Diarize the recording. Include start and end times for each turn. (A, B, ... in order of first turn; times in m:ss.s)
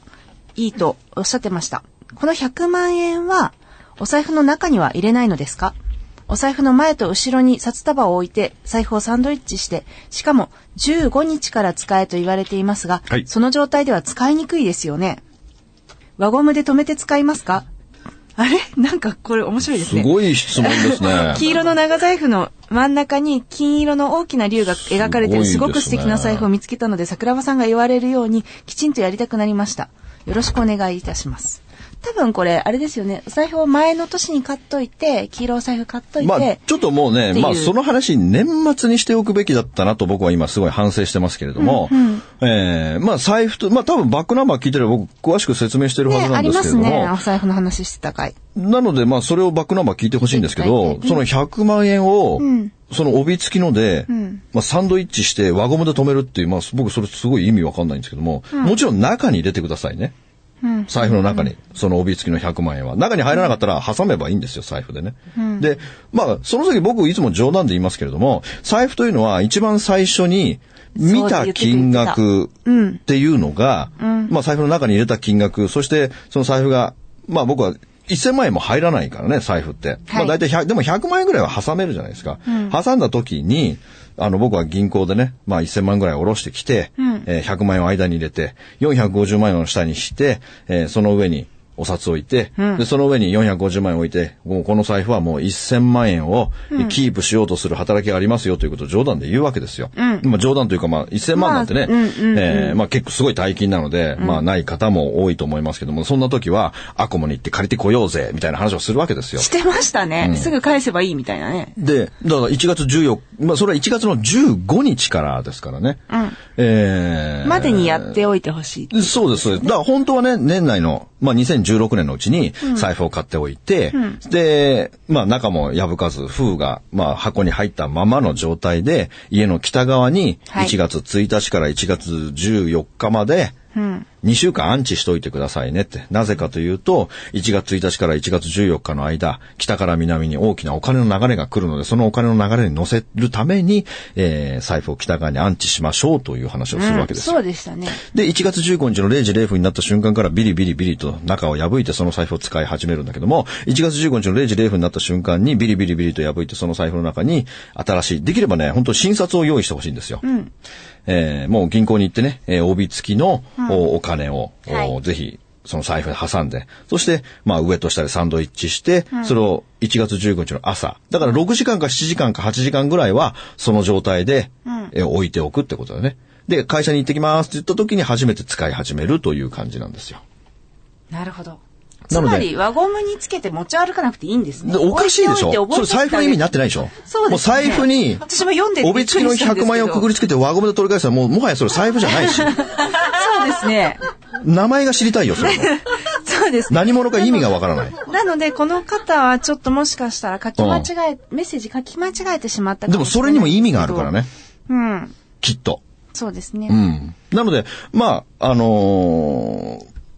0:00.6-0:05.7 A
0:06.3-0:15.2 A
0:16.2-0:17.6 A
0:18.4-0:36.6 A
0:19.8-0:21.4 B
0:24.8-0:26.5 B
0:36.2-0:47.1 B
0:37.3-0:37.7 A
0:41.6-0:42.2 A
0:46.0-0:48.3 A
0:48.5-1:00.1 B
0:50.3-0:51.2 A
0:52.4-0:52.7 A
0:54.1-0:54.4 A
1:00.6-1:01.5 A
1:00.9-1:12.5 B
1:05.3-1:05.7 A
1:11.0-1:13.0 A
1:13.0-1:49.5 B
1:14.0-1:14.3 A
1:20.1-1:20.3 A
1:22.5-1:22.7 A
1:27.0-1:27.2 A
1:32.6-1:32.8 A
1:36.7-1:37.0 A
1:40.0-1:40.2 A
1:41.3-1:42.8 A
1:44.2-1:44.4 A
1:49.4-1:51.7 A
1:50.2-1:50.5 B
1:51.8-1:58.2 B
1:56.1-1:56.4 A
1:57.4-1:59.7 A
1:58.9-2:13.5 B
2:02.6-2:02.9 A
2:03.9-2:04.2 A
2:10.5-2:10.7 A
2:13.7-2:14.1 A
2:14.2-2:27.4 B
2:26.7-2:28.0 A
2:28.0-2:40.2 B
2:40.2-2:40.5 A
2:41.0-3:00.2 B
2:44.7-2:44.9 A
2:54.6-2:54.9 A
3:01.1-3:06.4 A
3:02.1-3:02.5 B
3:04.6-3:08.2 B
3:07.0-3:10.1 A
3:08.8-3:12.6 B
3:12.1-3:14.0 A
3:14.4-3:15.8 B
3:15.4-3:24.1 A
3:16.7-3:18.0 B
3:20.6-3:20.9 B
3:22.9-3:24.3 B
3:24.7-3:25.2 A
3:25.4-3:25.8 B
3:26.1-3:26.8 A
3:26.7-3:29.8 B